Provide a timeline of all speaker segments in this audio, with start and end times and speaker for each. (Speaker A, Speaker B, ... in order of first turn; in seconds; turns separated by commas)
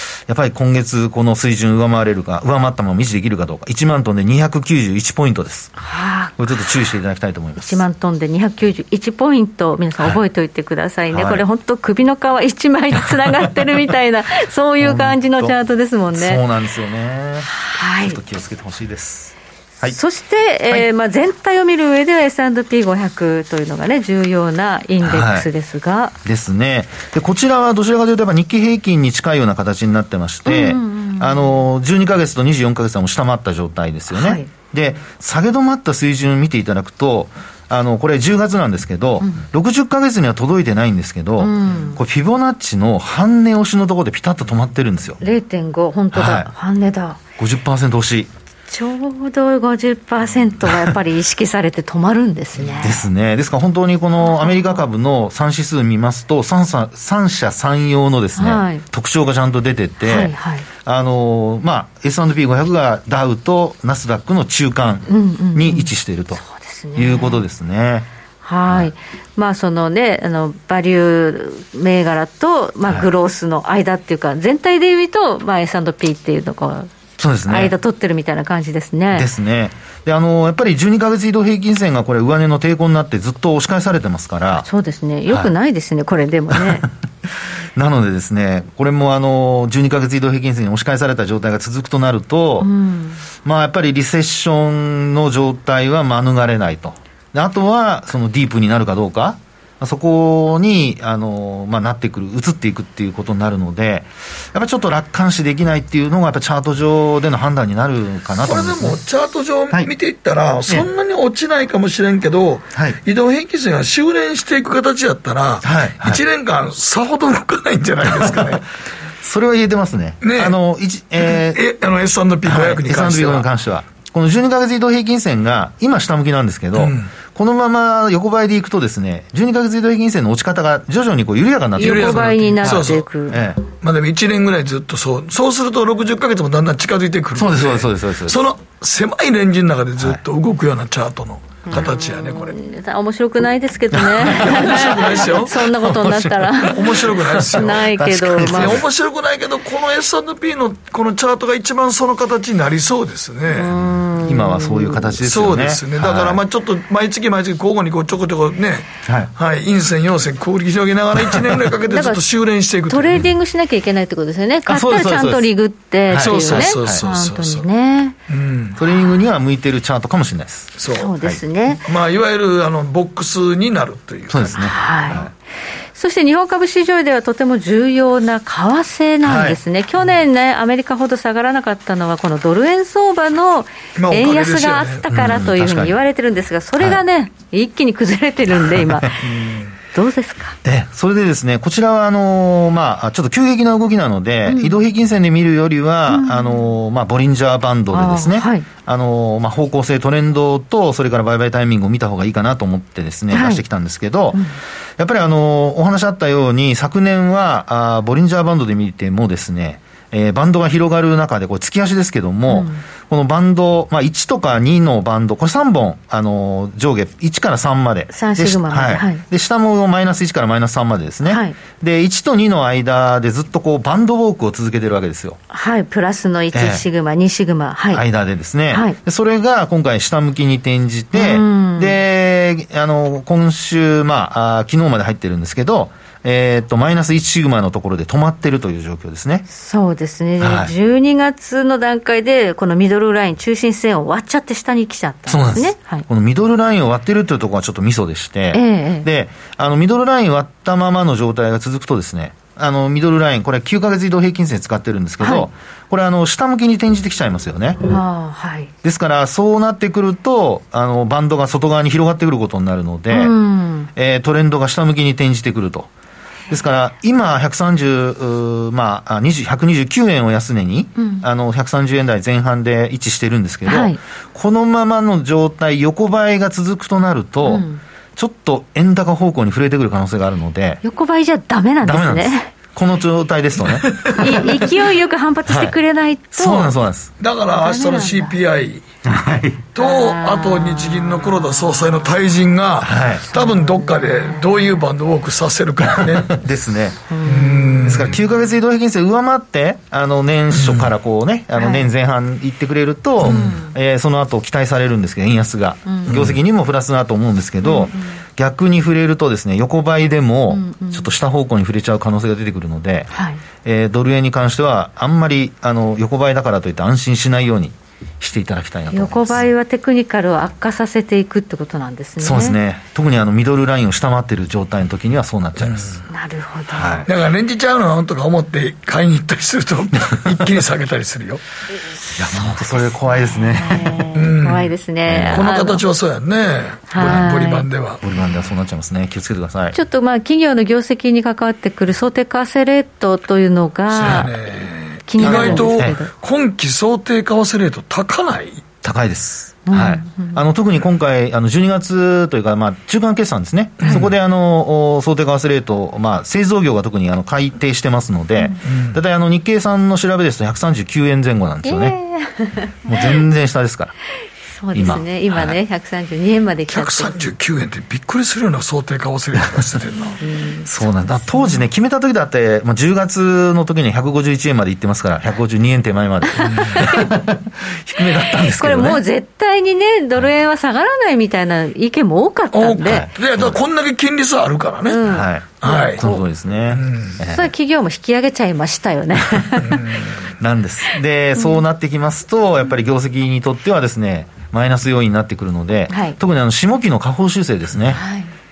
Speaker A: 0.3-5.7, Speaker B: 5.8-6.7, Speaker A: 6.4-7.8, Speaker B: 7.6-16.4, Speaker A: 11.1-11.4, Speaker A: 14.8-15.6, Speaker A: 16.1-20.0, Speaker B: 17.5-18.2, Speaker B: 19.9-26.1, Speaker A: 25.0-25.5, Speaker A: 26.2-45.2, Speaker B: 30.5-31.6, Speaker B: 34.1-34.5, Speaker B: 41.4-42.0, Speaker B: 45.2-47.2, Speaker A: 46.1-46.5, Speaker A: 47.4-48.3, Speaker B: 48.7-53.1, Speaker A: 52.6-66.4, Speaker B: 54.2-54.8, Speaker B: 58.4-58.8, Speaker B: 60.0-60.7, Speaker B: 65.1-67.4, Speaker A: 67.0-68.1, Speaker B: 68.4-79.3, Speaker A: 77.2-77.7, Speaker A: 79.1-84.7, Speaker B: 84.5-86.9, Speaker A: 86.5-86.9, Speaker A: 87.8-92.7, Speaker B: 92.6-93.2, Speaker A: 93.4-109.0, Speaker C: 108.4-118.6, Speaker A: 115.6-116.2, Speaker A: 118.0-118.6, Speaker A: 119.2-121.6, Speaker C: 120.2-120.5, Speaker C: 121.3-123.5, Speaker A: 122.5-133.6, Speaker C: 126.8-127.1, Speaker B: 131.8-133.4, Speaker C: 131.8-133.1, Speaker C: 133.7-142.6, Speaker A: 137.3-138.4, Speaker B: 141.7-148.8, Speaker A: 143.9-144.9, Speaker C: 144.4-145.5, Speaker A: 145.6-146.7, Speaker C: 146.7-147.8, Speaker A: 147.5-148.8, Speaker C: 148.5-153.7, Speaker B: 153.5-155.1, Speaker A: 154.2-156.4, Speaker C: 155.2-163.3, Speaker B: 161.9-162.2, Speaker B: 162.9-168.2, Speaker A: 164.7-165.5, Speaker A: 166.1-167.0, Speaker C: 166.2-167.7, Speaker C: 168.3-168.8, Speaker A: 168.8-171.4, Speaker C: 170.8-171.1, Speaker B: 170.9-171.8, Speaker C: 171.8-174.6, Speaker A: 174.3-175.3, Speaker B: 174.6-175.2, Speaker B: 175.9-189.3, Speaker A: 179.2-179.6, Speaker C: 184.0-185.2, Speaker A: 185.1-185.9, Speaker C: 189.4-189.6, Speaker B: 189.9-190.6, Speaker A: 190.6-204.4, Speaker B: 194.5-194.8, Speaker B: 196.1-196.7, Speaker B: 197.9-198.7, Speaker B: 203.3-203.6, Speaker A: 205.0-225.4, Speaker B: 212.5-212.8, Speaker B: 218.1-219.2, Speaker B: 221.3-221.6, Speaker B: 225.5-228.0, Speaker A: 226.5-226.8, Speaker A: 227.9-239.5, Speaker B: 228.7-229.0, Speaker B: 231.1-232.0, Speaker B: 239.5-246.1, Speaker A: 240.4-240.7, Speaker A: 245.3-257.8, Speaker B: 248.5-249.1, Speaker B: 255.2-255.5, Speaker B: 257.9-258.7, Speaker A: 258.8-263.3, Speaker B: 263.1-263.9, Speaker A: 263.9-265.9, Speaker A: 266.5-277.6, Speaker B: 271.0-271.2, Speaker B: 273.7-274.0, Speaker B: 277.4-277.8, Speaker A: 278.2-280.8, Speaker B: 280.8-282.5, Speaker A: 281.8-284.6, Speaker B: 284.2-286.7, Speaker A: 285.5-285.8, Speaker A: 286.3-287.1, Speaker C: 287.2-288.8, Speaker B: 287.5-288.4, Speaker A: 289.1-289.6, Speaker C: 289.7-296.4, Speaker B: 289.8-292.0, Speaker A: 292.8-293.3, Speaker B: 293.3-294.6, Speaker A: 295.9-297.1, Speaker B: 297.1-297.9, Speaker C: 297.3-298.2, Speaker A: 297.8-313.1, Speaker C: 300.6-300.9, Speaker B: 301.6-301.9, Speaker B: 303.2-303.7, Speaker C: 303.2-303.5, Speaker B: 305.9-306.2, Speaker C: 306.1-306.4, Speaker B: 307.6-308.1, Speaker B: 310.5-311.1, Speaker B: 313.1-313.4, Speaker A: 313.6-319.5, Speaker B: 318.9-322.6, Speaker A: 322.2-326.0, Speaker C: 325.6-326.0, Speaker B: 326.1-327.1, Speaker A: 326.8-327.1, Speaker C: 327.1-331.4, Speaker B: 332.1-332.6, Speaker A: 332.2-334.0, Speaker B: 333.3-335.8, Speaker C: 334.1-334.7, Speaker A: 335.1-335.4, Speaker C: 335.3-338.0, Speaker B: 336.9-337.7, Speaker A: 338.0-339.8, Speaker B: 339.7-344.3, Speaker C: 343.9-348.7, Speaker B: 345.1-346.1, Speaker A: 345.2-346.0, Speaker A: 348.8-362.0, Speaker B: 349.7-350.4, Speaker C: 353.8-354.1, Speaker C: 358.6-359.0, Speaker B: 361.6-363.1, Speaker A: 362.9-363.9, Speaker B: 364.6-367.2, Speaker A: 364.7-365.6, Speaker C: 366.7-370.2, Speaker B: 370.2-371.6, Speaker A: 370.7-379.0, Speaker B: 376.4-377.1, Speaker B: 378.6-383.1, Speaker C: 382.5-385.1, Speaker A: 382.8-383.6, Speaker B: 384.9-386.2, Speaker A: 385.1-387.5, Speaker C: 385.6-386.0, Speaker C: 386.7-387.2, Speaker B: 387.2-389.8, Speaker C: 389.7-390.1, Speaker A: 390.4-398.0, Speaker B: 395.9-396.2, Speaker B: 397.9-398.3